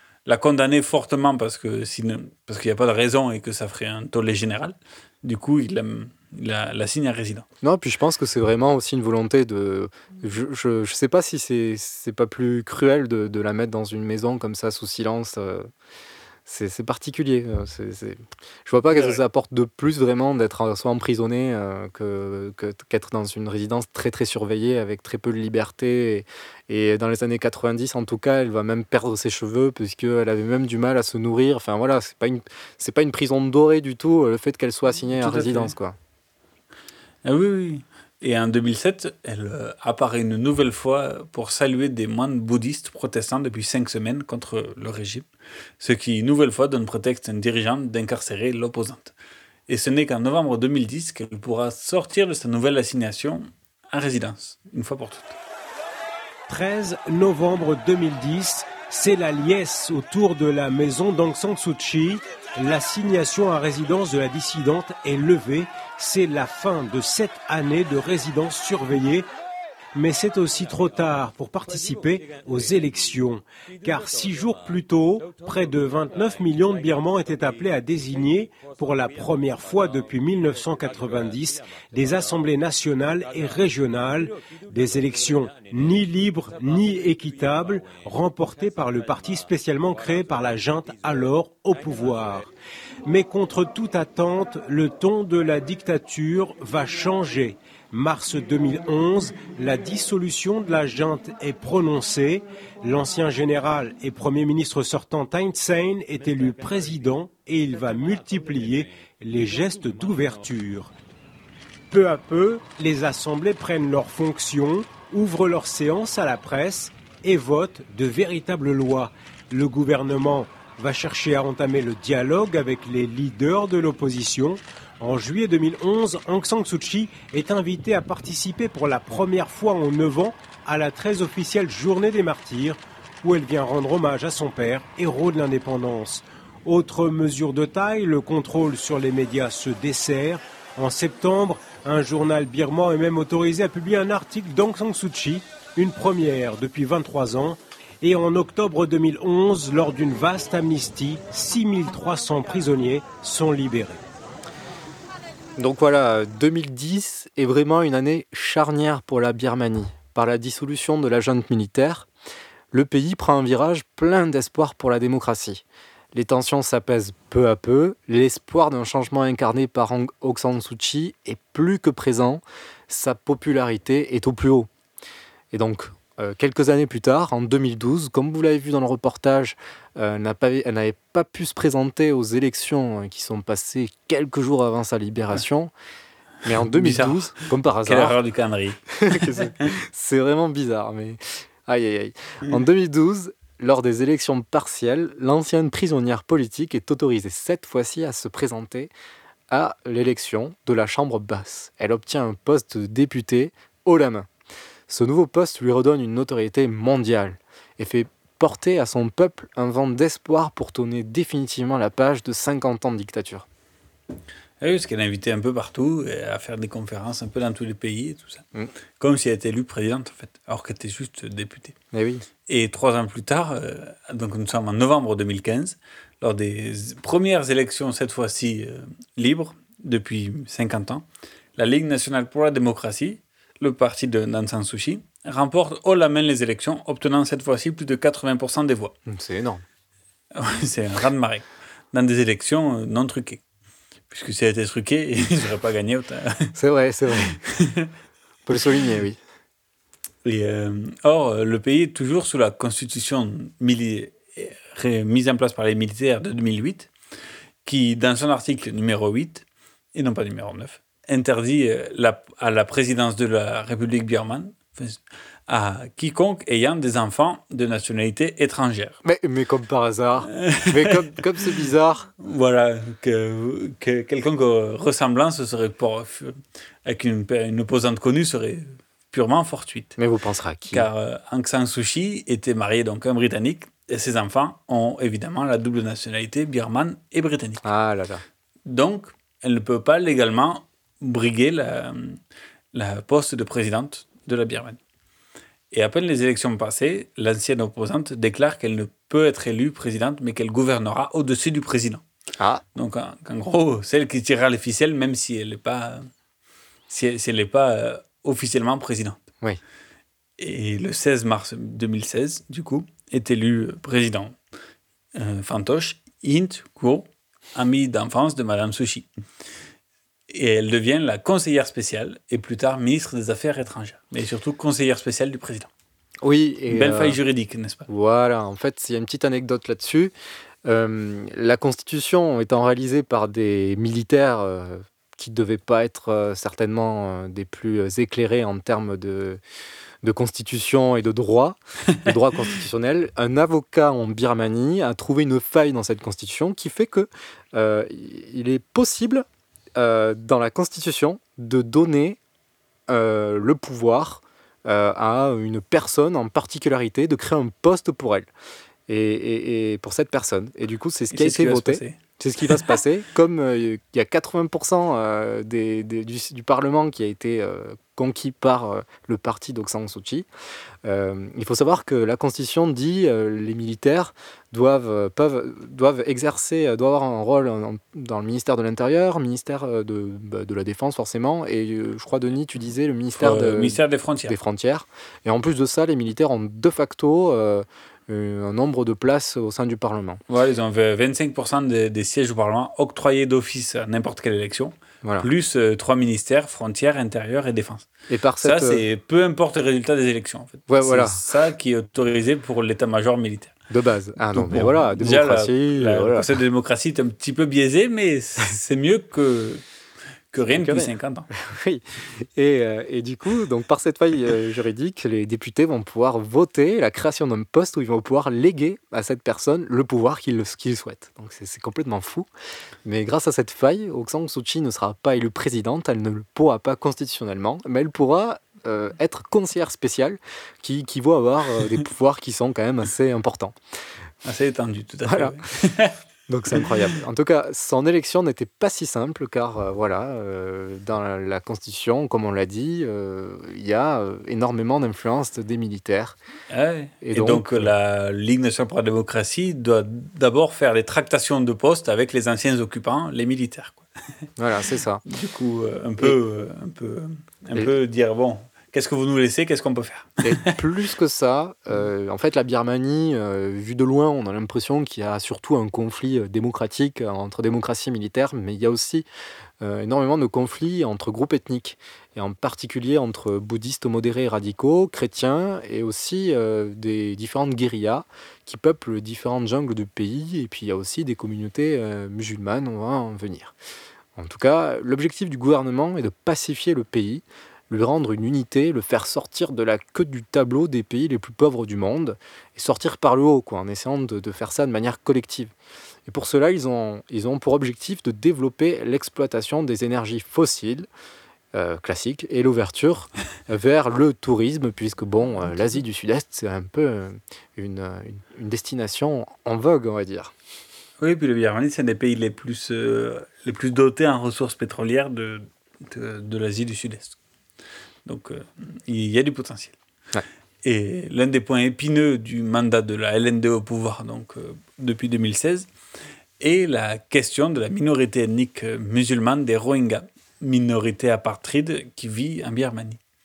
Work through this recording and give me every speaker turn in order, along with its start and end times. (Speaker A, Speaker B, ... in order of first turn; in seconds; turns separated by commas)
Speaker A: 0.3-7.5, Speaker B: 7.6-15.7, Speaker B: 16.5-36.0, Speaker A: 18.9-19.2, Speaker A: 35.1-35.7, Speaker A: 37.2-45.3, Speaker A: 45.8-49.1, Speaker A: 49.7-55.4, Speaker C: 56.5-69.3, Speaker C: 70.0-92.5, Speaker C: 93.1-110.9, Speaker C: 111.9-154.0, Speaker B: 155.6-162.1, Speaker B: 162.7-174.7, Speaker B: 175.5-185.7, Speaker B: 186.4-188.2, Speaker A: 186.7-187.3, Speaker A: 187.8-189.5, Speaker B: 189.0-198.9, Speaker B: 199.5-204.3, Speaker B: 204.9-213.5, Speaker A: 214.6-218.4, Speaker A: 219.0-221.8, Speaker B: 221.9-222.2, Speaker A: 222.5-231.1, Speaker A: 231.6-238.9, Speaker B: 239.1-239.6, Speaker A: 240.3-243.4, Speaker A: 244.1-246.5, Speaker B: 246.6-247.4, Speaker A: 247.6-247.9, Speaker B: 248.5-249.2, Speaker A: 250.2-256.9, Speaker A: 257.6-269.0, Speaker B: 269.0-272.1, Speaker A: 270.3-271.5, Speaker A: 272.2-280.0, Speaker B: 280.0-280.9, Speaker A: 280.7-287.7, Speaker B: 287.6-288.2, Speaker A: 288.7-292.2, Speaker A: 292.7-294.8, Speaker A: 295.7-302.0, Speaker A: 302.8-306.1, Speaker A: 306.9-309.2, Speaker A: 310.4-314.4, Speaker A: 315.1-319.1, Speaker A: 320.3-325.7, Speaker B: 326.2-327.2, Speaker A: 326.7-327.9, Speaker B: 327.9-330.1, Speaker B: 330.6-339.4, Speaker B: 340.0-349.2, Speaker B: 349.8-352.2, Speaker B: 352.9-358.3, Speaker B: 358.9-370.3, Speaker A: 361.1-362.0, Speaker B: 370.8-390.2, Speaker A: 383.2-384.4, Speaker A: 390.3-397.9, Speaker B: 395.0-395.3, Speaker B: 398.1-398.8, Speaker A: 398.4-403.6, Speaker B: 400.7-401.2, Speaker B: 403.7-406.3, Speaker A: 404.3-409.6, Speaker A: 410.3-411.3, Speaker B: 410.5-422.3, Speaker B: 422.9-433.6, Speaker A: 434.2-435.9, Speaker B: 435.1-435.4, Speaker B: 436.3-446.2, Speaker A: 446.5-453.9, Speaker B: 447.0-447.7, Speaker B: 454.4-455.0, Speaker A: 455.1-460.4, Speaker B: 460.2-469.1, Speaker B: 469.6-483.6, Speaker B: 484.2-495.5, Speaker B: 496.1-500.9, Speaker B: 501.5-510.3, Speaker A: 511.0-517.2, Speaker A: 518.1-519.8, Speaker A: 520.6-525.7, Speaker A: 526.4-533.0